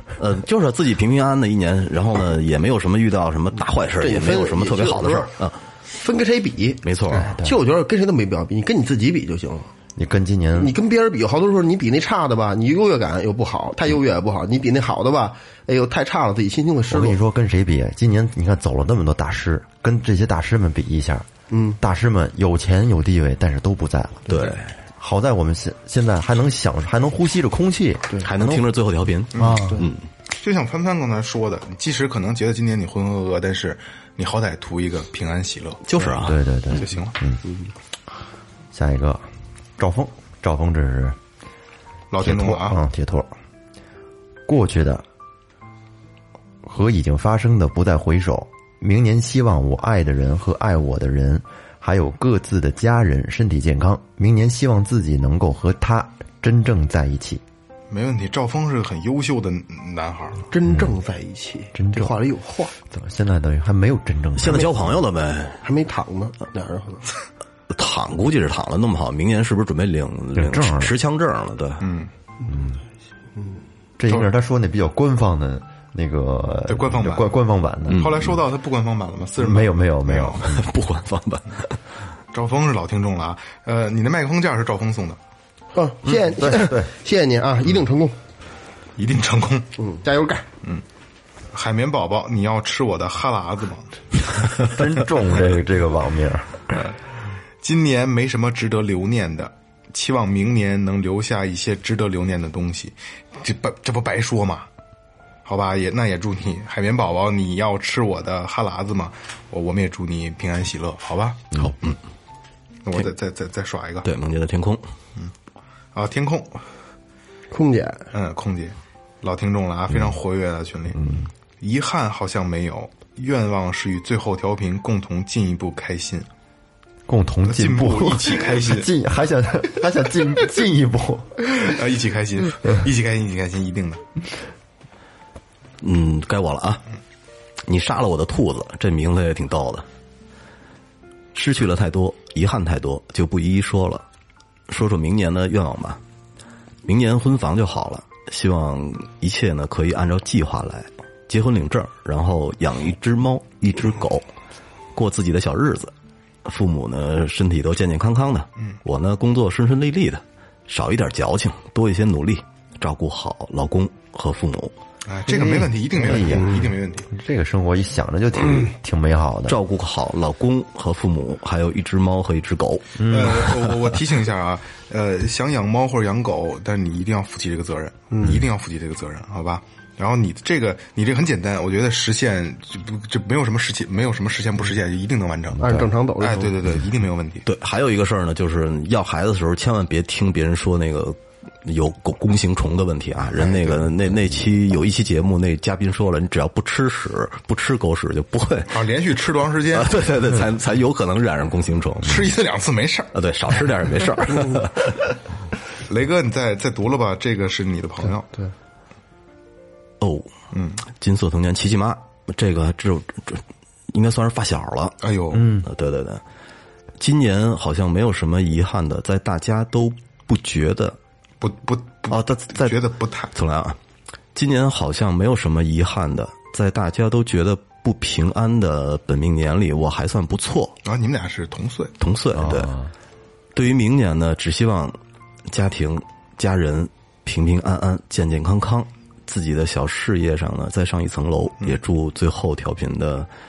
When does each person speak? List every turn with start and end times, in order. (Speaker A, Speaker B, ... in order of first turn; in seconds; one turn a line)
Speaker A: 0.2-5.6
Speaker B: 4.0-5.3
Speaker B: 5.8-9.7
Speaker A: 6.8-7.3
Speaker C: 7.1-7.5
Speaker C: 9.9-10.7
Speaker B: 10.6-17.1
Speaker C: 16.9-21.3
Speaker B: 21.5-21.8
Speaker C: 21.8-24.4
Speaker A: 24.3-24.7
Speaker C: 25.0-28.6
Speaker A: 28.2-30.0
Speaker D: 29.3-29.7
Speaker B: 29.4-29.9
Speaker D: 30.3-35.8
Speaker A: 35.9-36.4
Speaker C: 36.2-37.4
Speaker D: 36.7-37.1
Speaker C: 38.7-39.2
Speaker C: 39.8-41.2
Speaker D: 42.1-42.8
Speaker C: 42.2-43.3
Speaker C: 44.5-45.0
Speaker C: 46.6-57.4
Speaker D: 57.9-60.5
Speaker B: 60.5-62.7
Speaker C: 61.7-62.1
Speaker C: 62.9-64.9
Speaker A: 64.4-65.6
Speaker B: 65.6-67.0
Speaker A: 67.7-71.8
Speaker C: 70.3-70.9
Speaker D: 71.8-72.1
Speaker C: 72.5-72.8
Speaker C: 74.0-78.3
Speaker D: 76.7-77.3
Speaker A: 77.9-78.3
Speaker D: 77.9-80.4
Speaker C: 79.4-80.6
Speaker A: 80.4-81.8
Speaker D: 82.3-85.2
Speaker B: 85.7-88.2
Speaker C: 86.1-86.9
Speaker D: 89.0-89.8
Speaker B: 89.8-90.4
Speaker D: 91.5-93.9
Speaker C: 94.6-96.8
Speaker D: 97.6-104.7
Speaker D: 105.5-111.6
Speaker A: 111.6-111.9
Speaker D: 112.8-114.1
Speaker A: 114.0-114.8
Speaker D: 115.9-116.6
Speaker B: 117.5-118.1
Speaker D: 118.1-126.3
Speaker C: 121.0-121.2
Speaker C: 127.1-131.6
Speaker D: 127.5-128.9
Speaker D: 131.5-134.0
Speaker A: 135.8-136.8
Speaker A: 137.7-139.8
Speaker A: 141.3-144.0
Speaker A: 144.7-146.0
Speaker A: 146.8-154.2
Speaker A: 154.9-155.9
Speaker A: 156.4-164.7
Speaker D: 165.1-167.1
Speaker C: 165.2-169.6
Speaker A: 169.5-173.8
Speaker C: 173.0-173.4
Speaker D: 173.0-187.4
Speaker B: 185.6-186.5
Speaker A: 187.4-198.8
Speaker D: 198.7-200.1
Speaker A: 199.7-202.2
Speaker D: 202.0-203.1
Speaker A: 203.1-205.0
Speaker D: 205.8-208.3
Speaker A: 210.0-210.3
Speaker D: 210.5-210.8
Speaker A: 210.9-215.0
Speaker D: 215.0-215.5
Speaker C: 215.3-215.7
Speaker A: 215.6-216.2
Speaker A: 217.0-221.0
Speaker D: 221.4-223.3
Speaker A: 222.1-222.8
Speaker A: 223.3-223.8
Speaker A: 224.3-230.8
Speaker D: 230.8-231.9
Speaker A: 232.0-232.7
Speaker C: 232.3-232.9
Speaker A: 233.5-235.0
Speaker A: 235.5-243.3